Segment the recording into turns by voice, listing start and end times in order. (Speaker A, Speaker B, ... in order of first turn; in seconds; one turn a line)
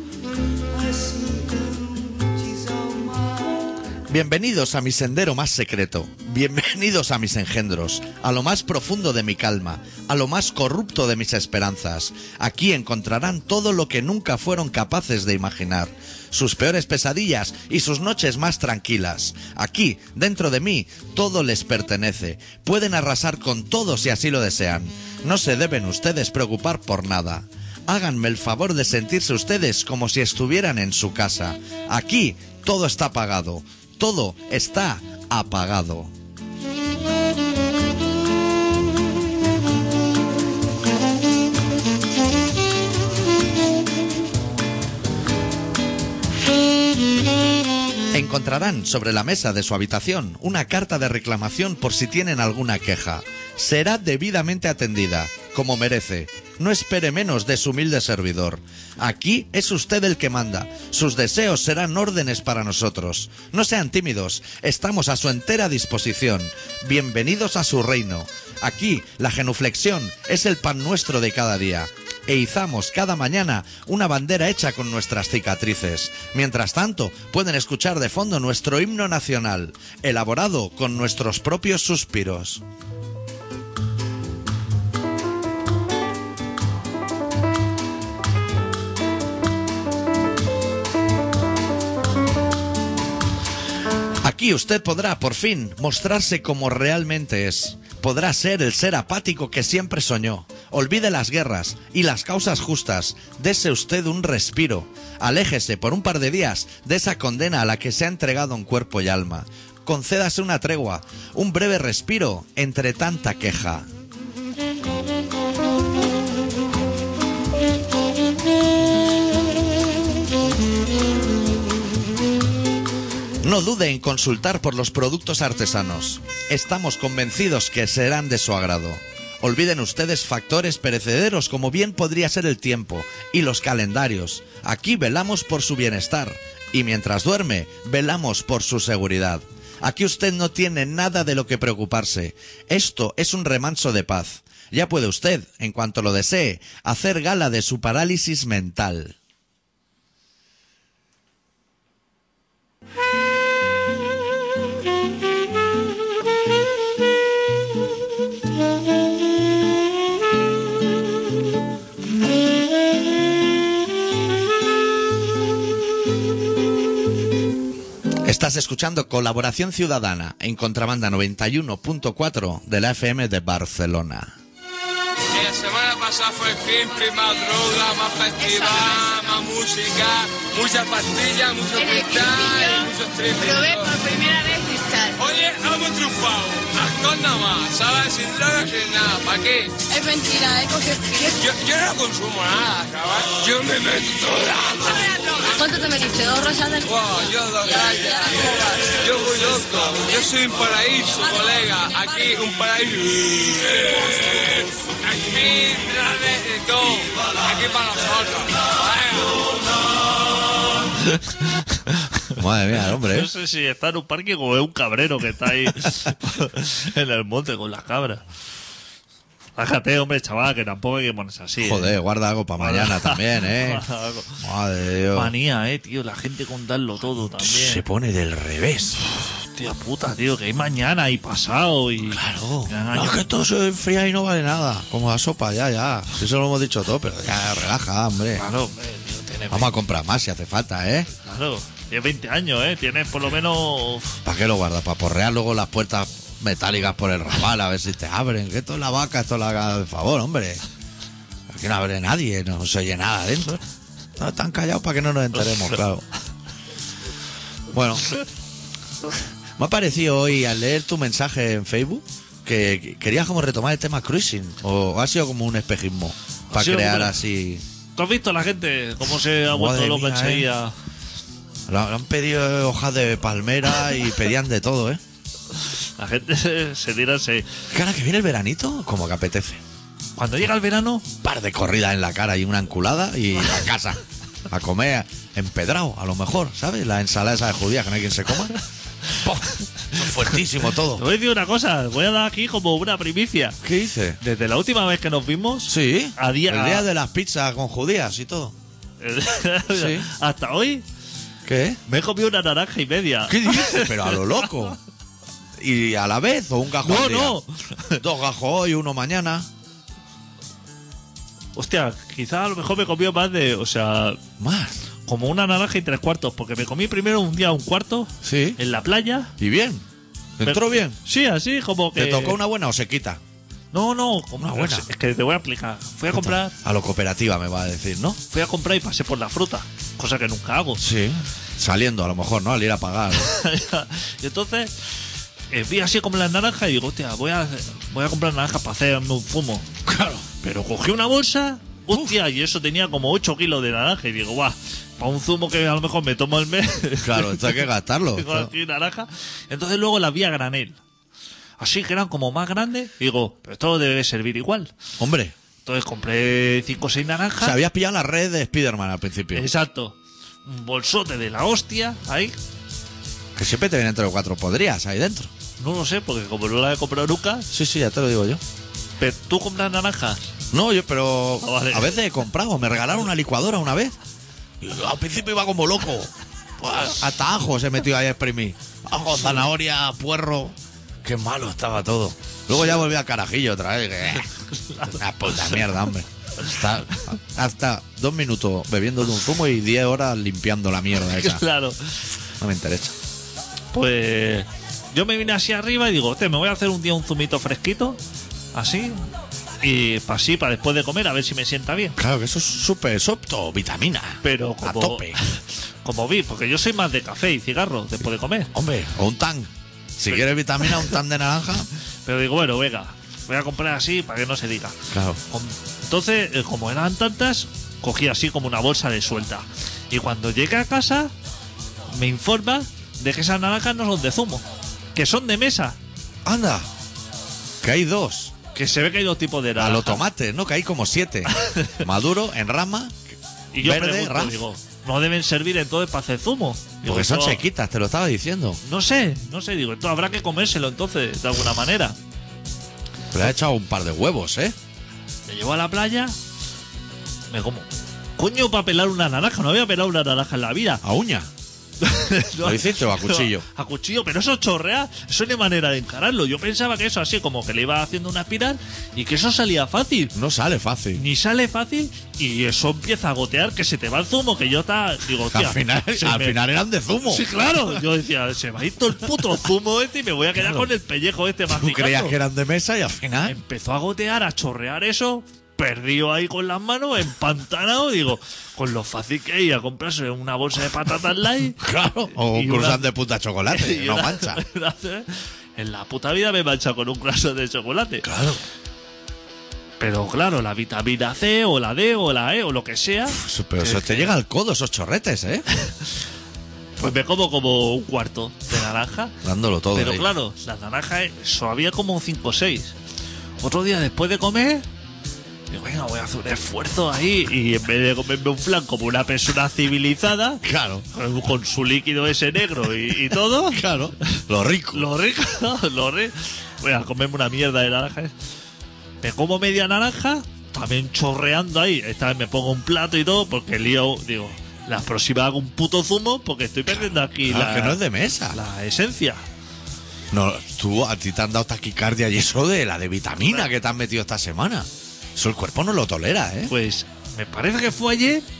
Speaker A: 0.8-3.4
Speaker B: 4.1-36.1
Speaker B: 48.1-82.6
Speaker B: 94.2-113.9
Speaker B: 123.4-149.1
Speaker B: 168.2-174.3
Speaker C: 175.3-184.0
Speaker D: 181.8-182.9
Speaker D: 183.4-185.2
Speaker C: 185.2-189.8
Speaker D: 189.9-191.4
Speaker C: 191.3-195.6
Speaker D: 195.4-196.9
Speaker C: 196.8-209.5
Speaker D: 197.9-198.4
Speaker E: 211.0-212.3
Speaker B: 212.3-213.3
Speaker E: 212.9-218.2
Speaker E: 219.6-221.9
Speaker B: 221.6-223.8
Speaker E: 222.6-224.4
Speaker B: 224.4-225.3
Speaker E: 225.1-227.8
Speaker B: 227.4-229.0
Speaker E: 229.5-233.3
Speaker B: 232.1-238.4
Speaker E: 238.3-239.7
Speaker B: 239.5-241.1
Speaker E: 241.2-244.2
Speaker B: 244.2-250.6
Speaker B: 251.5-253.6
Speaker B: 254.2-256.1
Speaker B: 257.7-258.2
Speaker B: 259.6-267.6
Speaker E: 266.5-267.1
Speaker E: 267.9-270.7
Speaker B: 269.5-270.5
Speaker B: 271.7-275.0
Speaker E: 276.0-277.5
Speaker B: 277.7-279.6
Speaker E: 280.1-281.1
Speaker B: 281.2-288.6
Speaker B: 289.1-291.0
Speaker E: 290.9-293.6
Speaker B: 293.6-294.2
Speaker E: 294.2-296.9
Speaker B: 295.7-298.6
Speaker E: 299.0-300.8
Speaker B: 299.7-300.1
Speaker B: 301.4-301.8
Speaker E: 301.9-304.5
Speaker B: 303.3-304.8
Speaker B: 305.6-307.4
Speaker E: 306.8-308.0
Speaker B: 308.0-309.5
Speaker E: 311.6-314.2
Speaker B: 314.4-314.8
Speaker E: 315.1-319.3
Speaker B: 318.2-318.6
Speaker B: 319.4-319.8
Speaker B: 320.4-321.0
Speaker E: 320.4-322.4
Speaker B: 321.9-323.2
Speaker E: 323.7-326.5
Speaker B: 324.4-324.9
Speaker B: 326.1-328.2
Speaker E: 328.3-330.8
Speaker B: 330.8-333.3
Speaker E: 333.1-334.7
Speaker E: 335.5-339.6
Speaker B: 339.8-340.2
Speaker E: 340.4-347.6
Speaker B: 341.9-342.1
Speaker B: 347.0-348.5
Speaker E: 348.1-350.8
Speaker E: 351.6-354.7
Speaker B: 355.0-355.3
Speaker E: 355.6-357.6
Speaker B: 357.4-359.5
Speaker E: 359.3-362.4
Speaker B: 363.4-365.3
Speaker E: 365.6-367.5
Speaker B: 367.5-368.4
Speaker E: 369.0-370.2
Speaker B: 370.5-373.9
Speaker E: 371.4-371.9
Speaker B: 374.6-384.3
Speaker E: 384.6-385.6
Speaker B: 384.8-391.4
Speaker E: 391.1-391.9
Speaker B: 392.4-392.9
Speaker E: 393.7-398.0
Speaker E: 398.5-399.1
Speaker E: 399.6-402.0
Speaker B: 402.0-405.2
Speaker E: 404.2-408.5
Speaker B: 408.5-411.7
Speaker E: 412.1-414.8
Speaker B: 414.9-415.2
Speaker E: 415.3-421.1
Speaker E: 421.9-424.4
Speaker E: 424.9-425.8
Speaker B: 426.2-426.7
Speaker B: 427.6-428.3
Speaker E: 428.5-430.0
Speaker B: 429.6-433.0
Speaker E: 431.3-431.8
Speaker E: 433.5-437.4
Speaker B: 433.6-434.4
Speaker B: 436.8-438.6
Speaker E: 438.6-442.0
Speaker B: 443.1-444.5
Speaker E: 445.3-446.1
Speaker E: 447.3-447.7
Speaker E: 448.2-450.8
Speaker B: 450.8-451.3
Speaker E: 451.8-460.1
Speaker B: 452.4-453.4
Speaker B: 460.1-461.0
Speaker E: 460.9-466.4
Speaker B: 465.3-467.2
Speaker E: 467.1-472.1
Speaker B: 470.4-470.7
Speaker B: 471.5-473.4
Speaker E: 473.2-481.6
Speaker B: 481.6-484.4
Speaker E: 482.2-482.9
Speaker E: 483.5-488.1
Speaker B: 488.0-488.4
Speaker E: 489.8-494.1
Speaker B: 493.1-495.4
Speaker E: 496.8-499.1
Speaker B: 499.2-500.1
Speaker E: 499.7-502.7
Speaker E: 503.4-504.6
Speaker E: 505.5-513.6
Speaker B: 510.4-510.8
Speaker B: 513.5-514.9
Speaker E: 514.7-518.1
Speaker E: 519.0-527.8
Speaker B: 526.7-528.4
Speaker E: 528.3-529.2
Speaker B: 530.1-536.5
Speaker E: 536.5-538.2